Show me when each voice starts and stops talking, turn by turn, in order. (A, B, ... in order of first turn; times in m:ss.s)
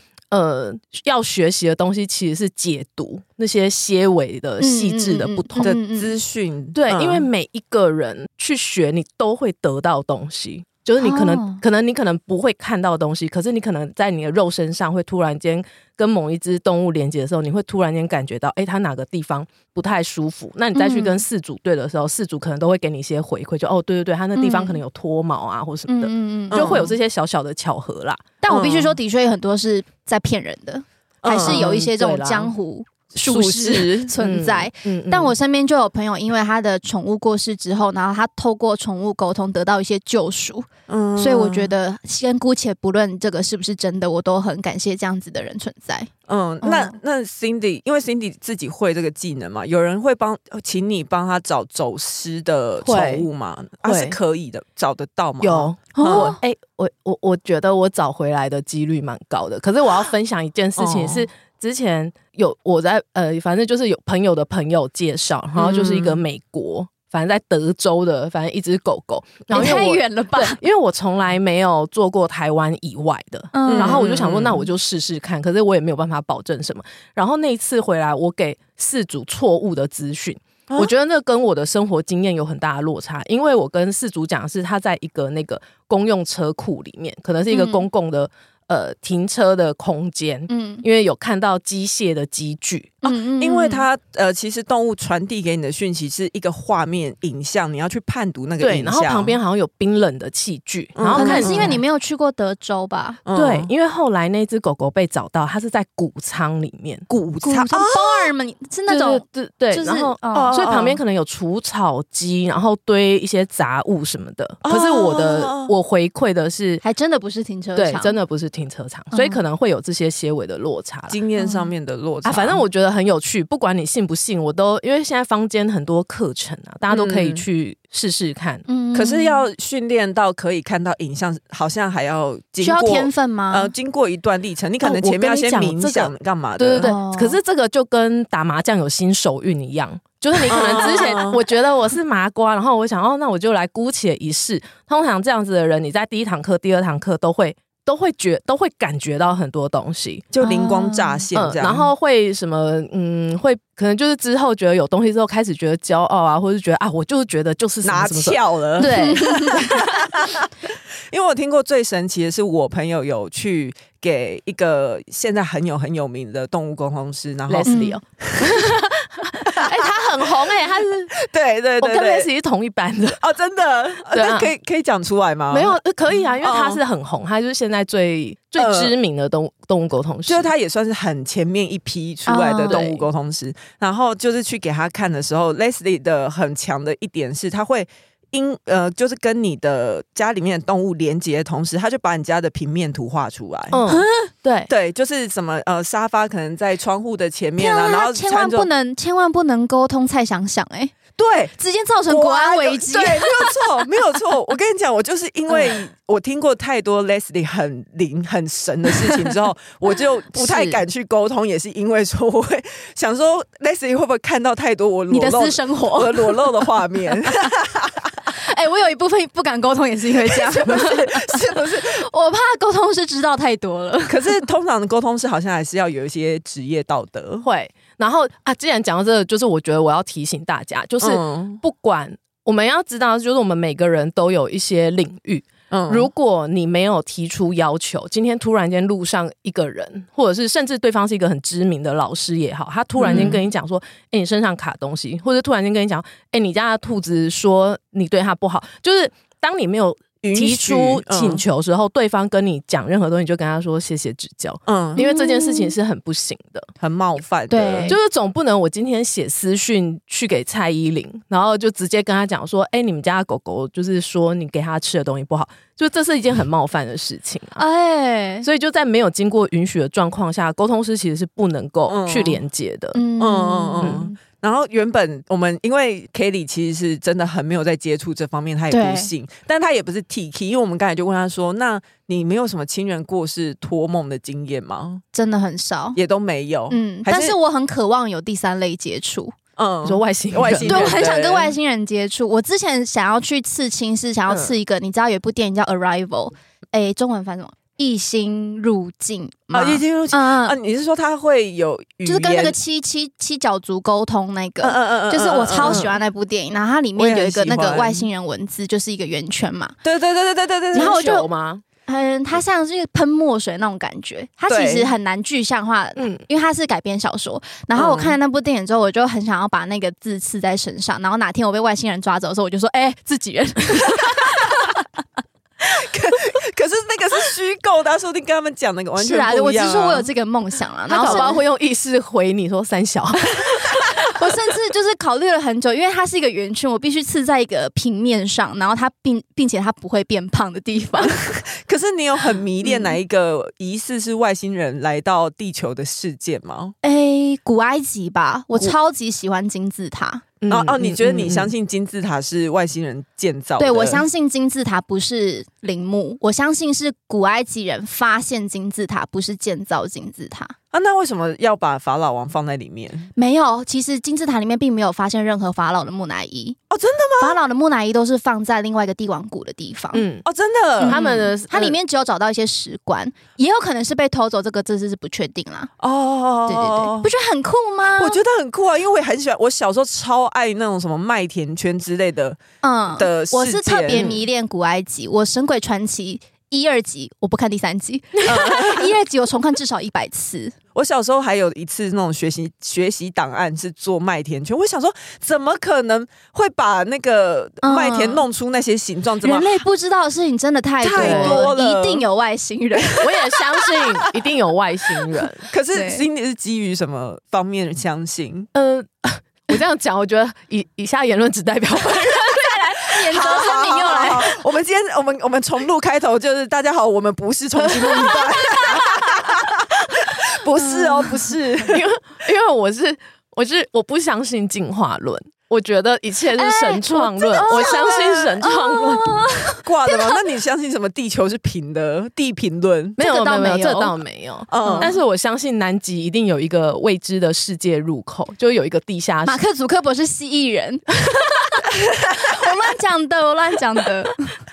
0:00.3-0:05.8 A
0:04.6-0:06.1 B
0:05.6-0:07.3 C
0:06.8-0:28.2 A
0:11.0-0:11.6 B
0:20.8-0:21.2 B
0:24.4-0:24.8 B
0:25.9-0:26.9 B
0:26.5-0:26.9 C
0:28.4-0:46.1 B
0:28.5-0:29.0 C
0:31.2-0:31.7 C
0:31.4-0:32.5 A
0:33.2-0:34.1 C
0:34.2-0:35.4 A
0:40.9-0:41.7 C
0:46.3-0:56.4 C
0:46.6-0:47.0 B
0:52.8-0:53.3 A
0:53.8-0:54.2 A
0:55.4-1:33.0 A
0:56.0-0:56.4 B
1:00.8-1:01.3 C
1:05.6-1:06.2 C
1:09.5-1:10.6 B
1:13.5-1:14.0 B
1:13.7-1:14.7 C
1:27.5-1:27.9 B
1:30.5-1:30.8 B
1:33.0-1:33.8 B
1:33.1-1:39.4 C
1:38.6-1:41.8 A
1:41.0-1:41.8 C
1:41.1-1:43.2 B
1:43.3-1:43.7 C
1:43.3-1:47.1 A
1:47.1-1:48.3 C
1:47.4-1:50.6 B
1:48.9-1:56.8 A
1:50.3-1:51.0 C
1:54.6-1:55.7 C
1:56.8-1:58.2 B
1:57.8-2:01.2 A
1:59.1-1:59.4 B
2:01.1-2:02.6 C
2:01.4-2:01.7 B
2:02.2-2:08.6 A
2:06.9-2:07.4 C
2:08.7-2:09.4 B
2:08.9-2:16.9 C
2:12.6-2:13.7 B
2:14.8-2:30.3 A
2:16.8-2:17.4 B
2:20.5-2:21.4 C
2:30.3-2:31.9 C
2:30.4-2:31.2 B
2:31.4-2:40.0 A
2:37.8-2:48.6 C
2:38.8-2:39.6 B
2:47.5-2:51.2 A
2:47.7-2:48.0 B
2:49.5-2:49.9 C
2:51.1-2:52.3 C
2:51.8-2:53.2 A
2:53.2-2:55.8 C
2:54.1-2:54.5 A
2:55.5-3:00.5 A
2:56.4-2:56.8 C
2:58.6-2:58.9 C
3:00.3-3:13.8 C
3:02.3-3:02.8 B
3:02.7-3:03.0 A
3:13.7-3:14.7 A
3:13.9-3:14.3 B
3:14.7-3:18.7 C
3:17.6-3:21.0 B
3:21.2-3:21.5 C
3:21.6-3:23.6 B
3:22.1-3:38.1 C
3:30.4-3:30.8 B
3:35.1-3:36.6 B
3:37.2-3:37.5 B
3:38.3-3:44.4 B
3:40.3-3:42.0 C
3:44.1-3:47.5 C
3:47.4-4:16.7 A
3:51.0-3:51.6 C
3:55.7-3:56.1 C
4:03.0-4:03.4 C
4:10.2-4:11.4 C
4:14.7-4:15.0 C
4:15.0-4:15.7 B
4:16.8-4:18.0 C
4:17.5-4:18.0 B
4:17.9-4:27.6 A
4:27.6-4:28.5 B
4:28.4-4:33.0 A
4:31.9-4:32.4 C
4:33.0-4:34.2 B
4:33.2-4:45.0 C
4:33.8-4:34.1 A
4:38.7-4:39.1 B
4:45.1-4:46.0 B
4:46.0-4:47.4 C
4:46.7-4:49.4 B
4:49.6-4:51.6 C
4:49.8-4:51.0 A
4:50.6-5:00.6 B
4:59.5-5:02.6 C
5:02.0-5:09.8 B
5:04.6-5:06.0 C
5:07.0-5:08.1 C
5:09.8-5:11.2 C
5:10.7-5:11.6 A
5:10.8-5:11.3 B
5:11.9-5:24.7 B
5:14.5-5:14.9 C
5:16.0-5:16.2 A
5:17.8-5:18.2 C
5:24.0-5:24.5 C
5:25.6-5:30.1 C
5:29.0-5:31.4 B
5:30.9-5:33.5 A
5:31.1-5:31.3 C
5:34.0-5:41.4 B
5:41.1-5:46.8 C
5:42.7-5:42.9 B
5:46.8-5:50.3 B
5:50.4-5:51.5 A
5:50.5-5:54.0 C
5:53.6-6:00.6 B
6:00.7-6:03.1 C
6:03.2-6:06.6 B
6:06.7-6:07.4 C
6:07.2-6:10.1 B
6:09.9-6:10.2 A
6:10.2-6:11.0 C
6:10.8-6:15.7 B
6:10.8-6:11.8 A
6:15.8-6:17.1 C
6:16.5-6:18.2 B
6:18.0-6:22.4 C
6:22.6-6:30.6 B
6:23.0-6:24.1 C
6:23.9-6:24.2 A
6:28.3-6:28.9 C
6:30.8-6:39.6 C
6:37.6-6:38.2 B
6:39.2-6:43.1 B
6:40.8-6:42.0 C
6:41.0-6:41.5 A
6:42.8-6:43.1 C
6:43.0-6:45.4 A
6:45.4-6:48.5 C
6:45.7-6:46.0 B
6:48.6-6:52.5 A
6:52.2-6:54.4 B
6:53.1-7:01.8 C
6:58.0-6:58.8 B
7:00.8-7:01.1 B
7:01.6-7:09.2 A
7:06.4-7:10.2 B
7:07.4-7:08.4 C
7:09.6-7:13.0 C
7:13.0-7:19.4 A
7:13.0-7:14.0 B
7:14.5-7:14.9 C
7:14.6-7:14.9 B
7:19.2-7:24.4 B